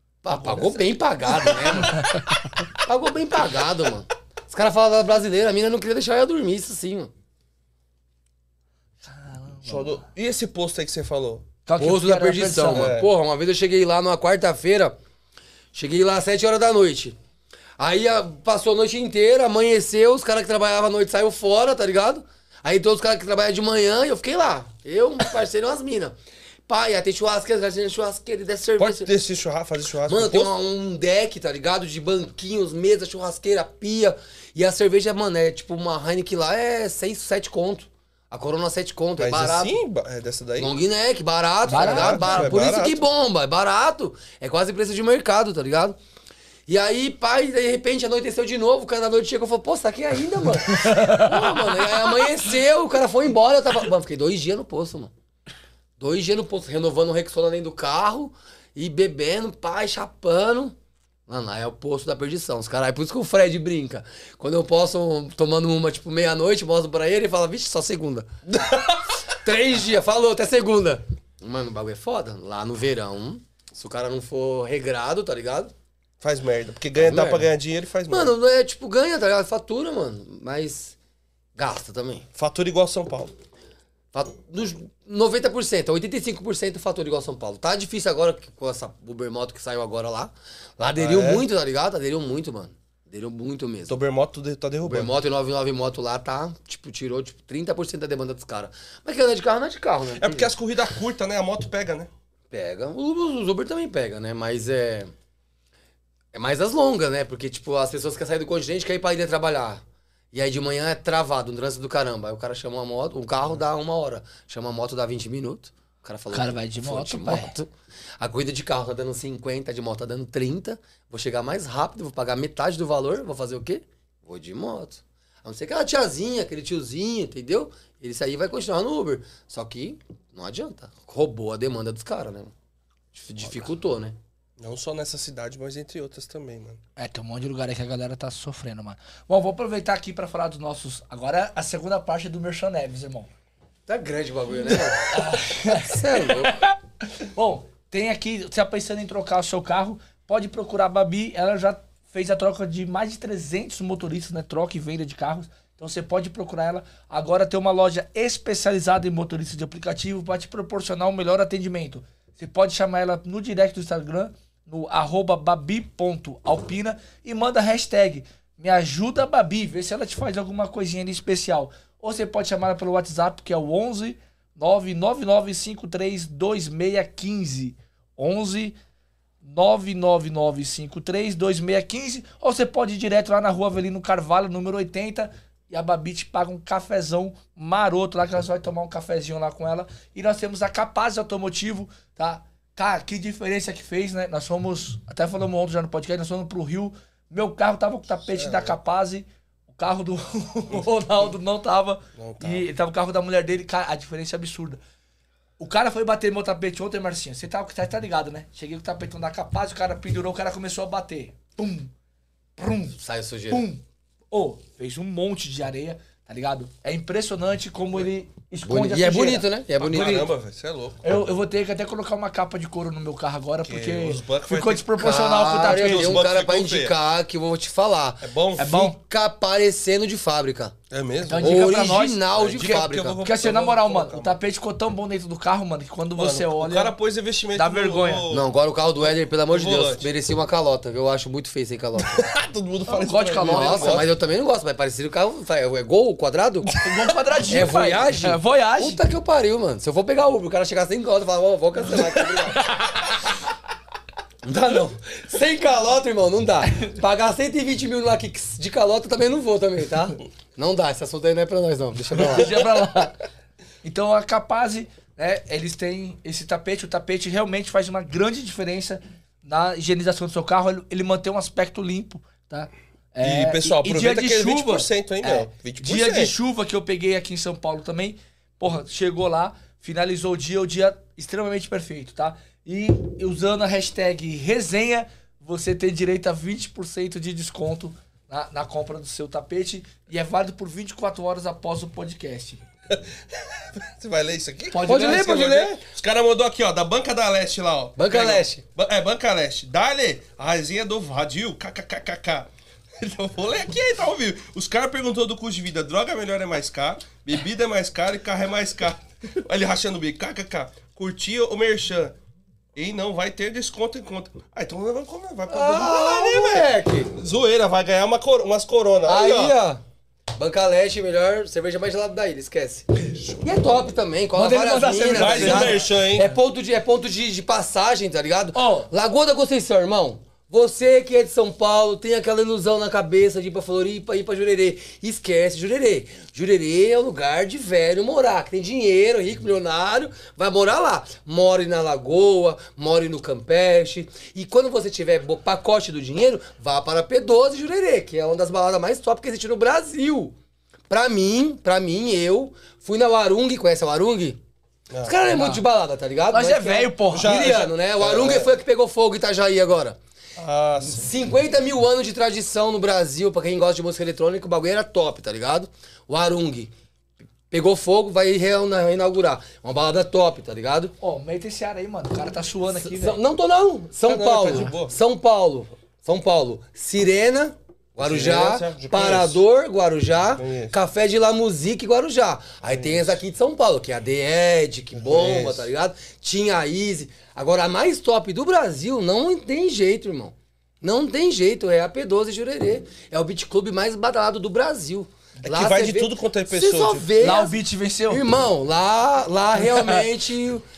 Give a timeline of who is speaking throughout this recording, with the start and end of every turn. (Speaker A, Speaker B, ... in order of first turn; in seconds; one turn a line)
Speaker A: 0.2-2.0
Speaker B: 0.3-0.8
Speaker B: 1.4-1.7
Speaker A: 2.8-7.1
Speaker C: 9.0-10.0
Speaker B: 9.7-11.5
Speaker C: 11.7-12.9
Speaker A: 11.8-14.9
Speaker B: 12.7-13.1
Speaker A: 15.7-17.1
Speaker A: 17.8-26.1
Speaker A: 26.7-29.1
Speaker B: 28.8-30.5
Speaker A: 30.1-39.7
Speaker B: 39.2-40.7
Speaker A: 40.6-46.0
Speaker C: 41.6-42.6
Speaker B: 41.8-43.0
Speaker A: 46.7-55.1
Speaker C: 50.7-51.4
Speaker A: 56.0-60.7
Speaker A: 61.3-68.3
Speaker B: 68.5-69.0
Speaker A: 69.3-75.7
Speaker B: 76.2-78.3
Speaker A: 77.0-77.5
Speaker A: 78.1-81.0
Speaker A: 81.5-82.3
Speaker B: 82.3-83.3
Speaker A: 84.1-94.0
Speaker B: 91.0-91.4
Speaker B: 93.9-95.2
Speaker A: 94.8-100.5
Speaker B: 100.2-102.1
Speaker A: 102.5-105.1
Speaker A: 106.3-132.5
Speaker C: 116.3-117.5
Speaker A: 133.1-134.2
Speaker B: 134.6-136.8
Speaker C: 137.0-143.3
Speaker A: 143.9-146.6
Speaker C: 145.1-178.8
Speaker C: 179.4-204.8
Speaker B: 198.4-198.7
Speaker B: 202.2-202.6
Speaker C: 205.6-211.9
Speaker C: 212.6-213.0
Speaker A: 212.9-213.6
Speaker C: 213.5-220.3
Speaker A: 218.6-220.3
Speaker B: 219.8-221.2
Speaker C: 221.0-226.2
Speaker B: 223.7-225.0
Speaker A: 225.0-230.7
Speaker B: 225.6-226.9
Speaker B: 228.2-228.9
Speaker C: 228.6-229.0
Speaker B: 230.9-231.7
Speaker C: 231.2-236.9
Speaker A: 231.4-233.2
Speaker B: 232.3-234.4
Speaker B: 236.2-238.4
Speaker C: 237.6-238.2
Speaker A: 238.3-242.2
Speaker B: 239.5-240.1
Speaker B: 242.1-244.1
Speaker C: 242.9-244.0
Speaker A: 243.4-246.7
Speaker C: 246.7-249.0
Speaker A: 247.5-252.8
Speaker C: 252.6-252.9
Speaker A: 254.4-262.7
Speaker C: 262.2-263.2
Speaker C: 263.8-292.6
Speaker B: 273.2-276.3
Speaker B: 293.5-312.1
Speaker C: 294.7-295.3
Speaker A: 294.8-295.8
Speaker A: 297.9-298.6
Speaker B: 312.8-319.6
Speaker A: 315.5-317.1
Speaker A: 319.0-319.8
Speaker A: 320.3-350.3
Speaker C: 324.3-326.3
Speaker B: 324.9-326.3
Speaker C: 328.5-328.9
Speaker A: 350.9-354.4
Speaker A: 355.0-360.0
Speaker C: 355.3-355.6
Speaker C: 356.3-357.3
Speaker B: 357.1-358.5
Speaker B: 360.4-361.1
Speaker A: 360.8-366.7
Speaker A: 367.5-370.9
Speaker C: 371.0-373.2
Speaker A: 372.7-397.6
Speaker B: 374.1-374.9
Speaker B: 378.0-379.4
Speaker B: 380.4-380.7
Speaker B: 382.7-383.1
Speaker B: 385.0-385.7
Speaker B: 395.4-397.1
Speaker C: 397.2-398.3
Speaker A: 398.1-400.6